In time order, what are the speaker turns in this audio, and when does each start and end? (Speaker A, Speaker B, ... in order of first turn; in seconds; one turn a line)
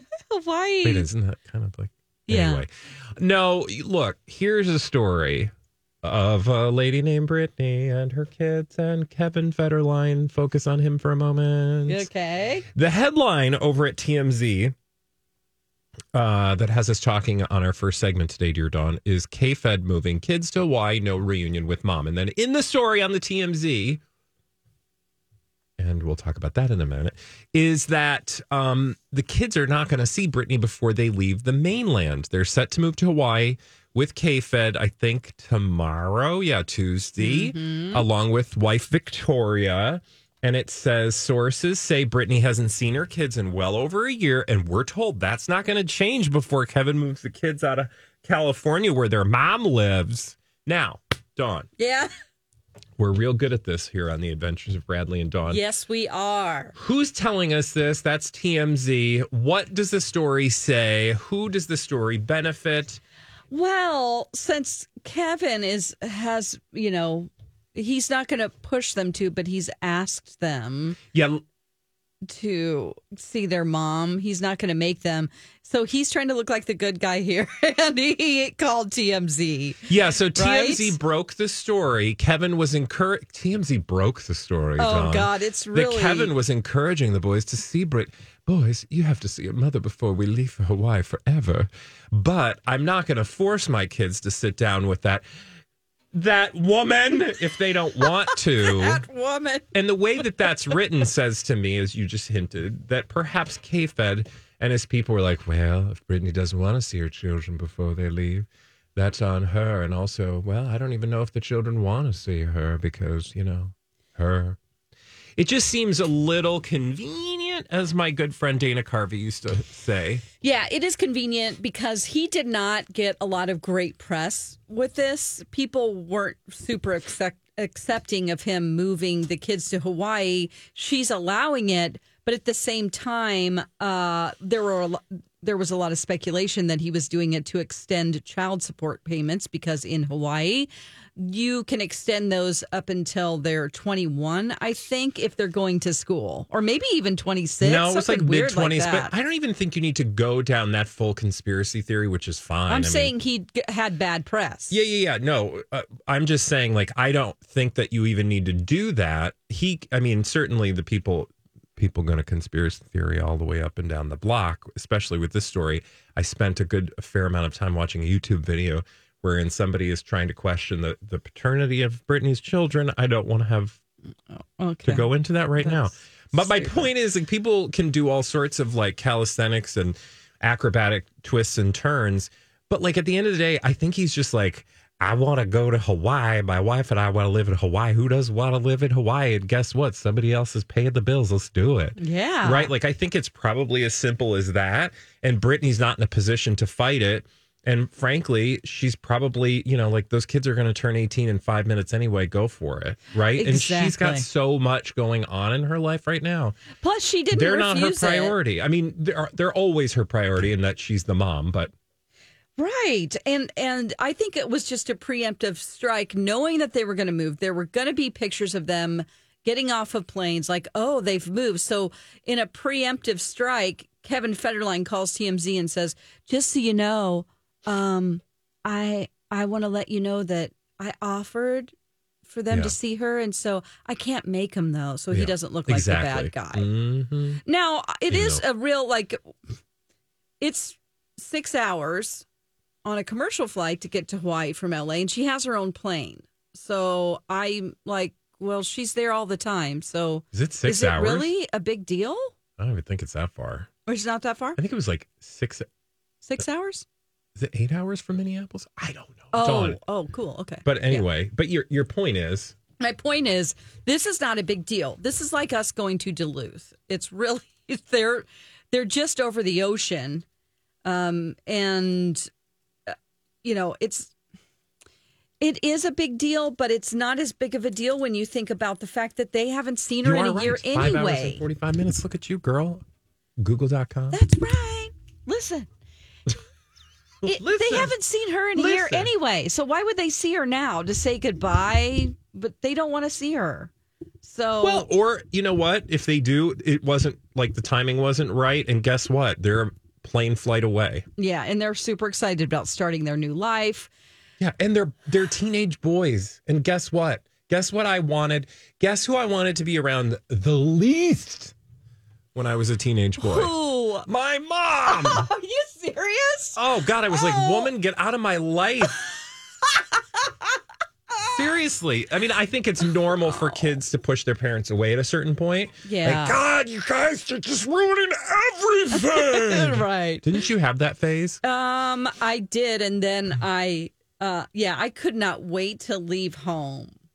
Speaker A: 0.3-1.1
Speaker B: 0.8-12.1
Speaker A: 2.3-2.6
Speaker A: 11.9-12.7
Speaker B: 12.8-14.7
Speaker B: 16.1-24.0
Speaker B: 25.8-51.7
Speaker A: 37.2-38.1
Speaker A: 51.8-52.1
Speaker B: 53.0-55.6
Speaker A: 55.5-56.8
Speaker B: 56.8-63.0
Speaker A: 63.5-71.0
Speaker B: 71.1-71.4
Speaker A: 72.3-81.0
Speaker B: 79.9-95.2
Speaker A: 84.8-86.3
Speaker B: 96.1-99.0
Speaker A: 98.3-99.7
Speaker B: 99.7-114.6
Speaker B: 115.4-120.2
Speaker A: 120.4-149.1
Speaker B: 147.6-153.2
Speaker A: 152.7-154.8
Speaker B: 154.7-173.8
Speaker A: 174.3-176.9
Speaker B: 174.8-206.6
Speaker A: 192.0-192.7
Speaker A: 203.3-204.3
Speaker A: 206.8-208.4
Speaker B: 207.3-211.7
Speaker A: 212.6-231.7
Speaker A: 232.3-236.7
Speaker B: 232.5-232.8
Speaker B: 235.1-237.4
Speaker A: 237.4-239.3
Speaker B: 238.1-238.4
Speaker A: 240.4-242.2
Speaker A: 242.8-252.3
Speaker B: 250.3-251.3
Speaker B: 252.6-253.7
Speaker A: 253.9-254.6
Speaker B: 254.6-255.7
Speaker A: 256.2-256.9
Speaker B: 257.4-259.8
Speaker A: 259.3-261.1
Speaker B: 260.6-262.6
Speaker A: 262.8-270.2
Speaker A: 270.9-272.3
Speaker A: 272.9-274.1
Speaker A: 275.4-281.4
Speaker B: 280.0-282.8
Speaker B: 283.4-284.2
Speaker A: 284.1-285.7
Speaker B: 287.2-287.9
Speaker A: 287.2-293.7
Speaker B: 288.5-289.1
Speaker A: 294.2-294.9
Speaker B: 294.6-301.1
Speaker A: 301.2-303.9
Speaker B: 304.4-311.5
Speaker B: 312.4-313.5
Speaker A: 313.2-314.1
Speaker B: 314.1-315.3
Speaker A: 314.9-316.6
Speaker B: 316.6-319.0
Speaker A: 317.1-317.7
Speaker A: 320.2-320.5
Speaker A: 321.1-321.4
Speaker B: 321.3-331.4
Speaker A: 323.3-323.6
Speaker A: 325.9-326.4
Speaker A: 328.9-330.3
Speaker A: 331.4-337.0